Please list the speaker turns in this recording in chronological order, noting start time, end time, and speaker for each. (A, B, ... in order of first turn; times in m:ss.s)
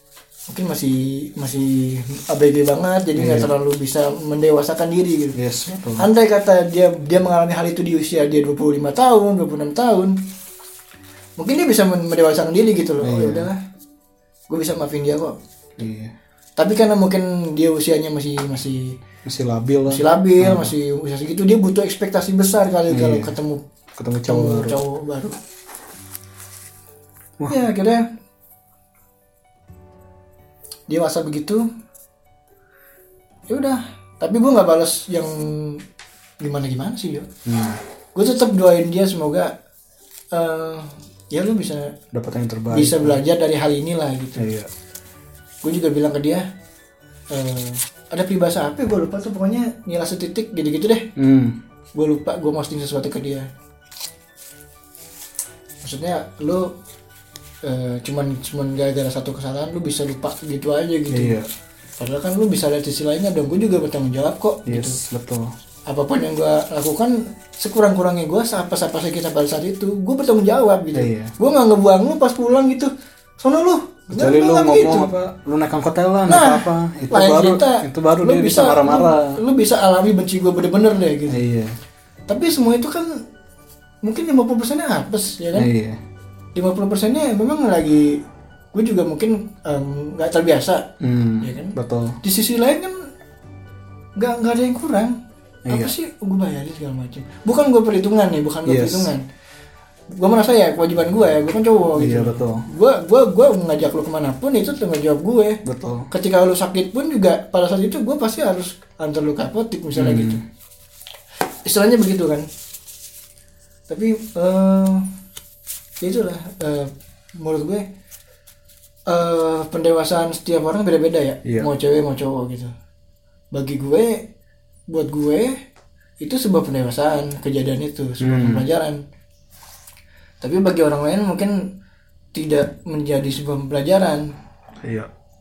0:00.5-0:05.4 A
0:03.2-0:03.5 B
0:05.4-0:06.1 B
0:06.0-0:10.2 A
0:11.4-0:13.6 A
0:13.0-0:13.5 B
0:14.5-0:15.4 A
0:15.8-0:16.1 B
0:16.6-0:19.0 A
0:19.2-0:20.7 B
0:19.9-0:23.6 A
0:22.9-0:23.4 B
0:24.0-0:24.8 B
0:24.3-0:25.4 A
0:27.5-0:28.0 A
0:30.9-0:31.6 A
0:33.5-0:35.8 A
0:36.4-0:37.3 A
0:37.5-0:37.8 B
0:38.2-0:39.5 A
0:40.3-0:42.0 A
0:42.1-0:43.2 B
0:42.7-0:44.5 A
0:44.4-0:44.7 B
0:45.6-0:46.4 A
0:47.3-0:51.1 A
0:51.2-0:51.6 B
0:52.0-0:53.5 A
0:55.8-0:56.7 A
0:57.6-1:01.4 A
1:01.1-1:01.5 B
1:02.0-1:05.0 A
1:04.7-1:05.5 B
1:05.9-1:15.1 A
1:10.9-1:11.3 B
1:14.1-1:19.4 B
1:16.3-1:21.4 A
1:21.3-1:21.8 B
1:22.3-1:23.2 A
1:24.0-1:25.7 A
1:25.5-1:26.0 B
1:26.6-1:28.2 A
1:28.7-1:33.0 A
1:31.0-1:32.2 B
1:34.2-1:35.2 A
1:35.7-1:35.9 B
1:35.7-1:39.2 A
1:38.6-1:39.1 B
1:40.1-1:50.4 A
1:42.0-1:42.7 B
1:45.6-1:46.1 B
1:50.0-1:50.4 B
1:51.7-1:52.5 A
1:53.9-1:55.0 A
1:56.0-1:57.9 A
1:59.1-2:02.7 A
2:03.5-2:04.3 A
2:04.9-2:05.6 A
2:06.2-2:09.0 A
2:08.2-2:08.7 B
2:10.4-2:11.7 A
2:12.3-2:14.3 A
2:14.8-2:15.1 B